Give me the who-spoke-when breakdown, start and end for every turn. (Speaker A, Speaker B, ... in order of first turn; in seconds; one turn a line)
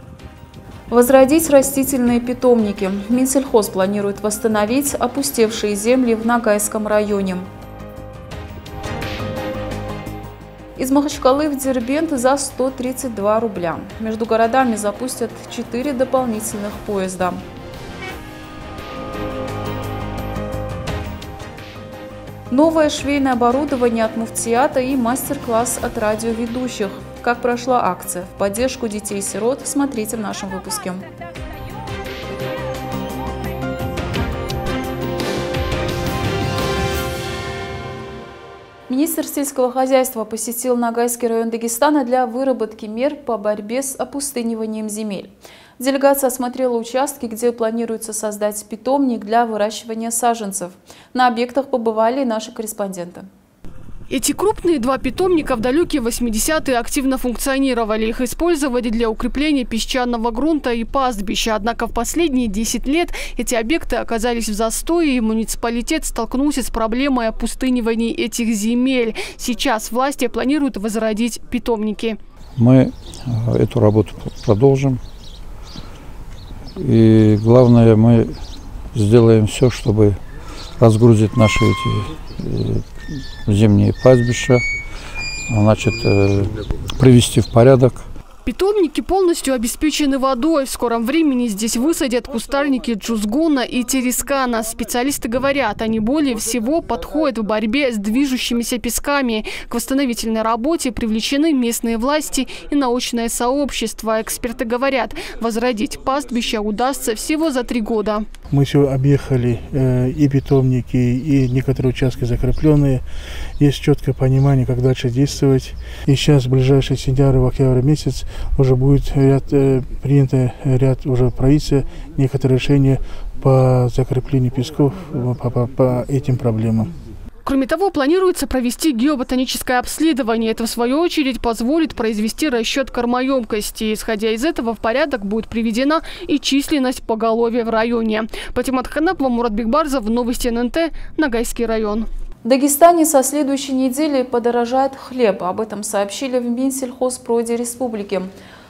Speaker A: 0.9-7.5
Speaker A: 10.8-17.4
Speaker A: 22.5-31.0
Speaker A: 38.9-53.3
Speaker B: 54.1-72.2
Speaker C: 72.6-75.0
Speaker C: 76.8-78.4
Speaker C: 78.9-80.2
Speaker C: 80.8-84.6
Speaker C: 85.5-88.1
Speaker B: 88.5-108.3
Speaker D: 108.5-113.1
Speaker D: 113.6-126.9
Speaker B: 127.5-142.1
Speaker A: 142.4-148.3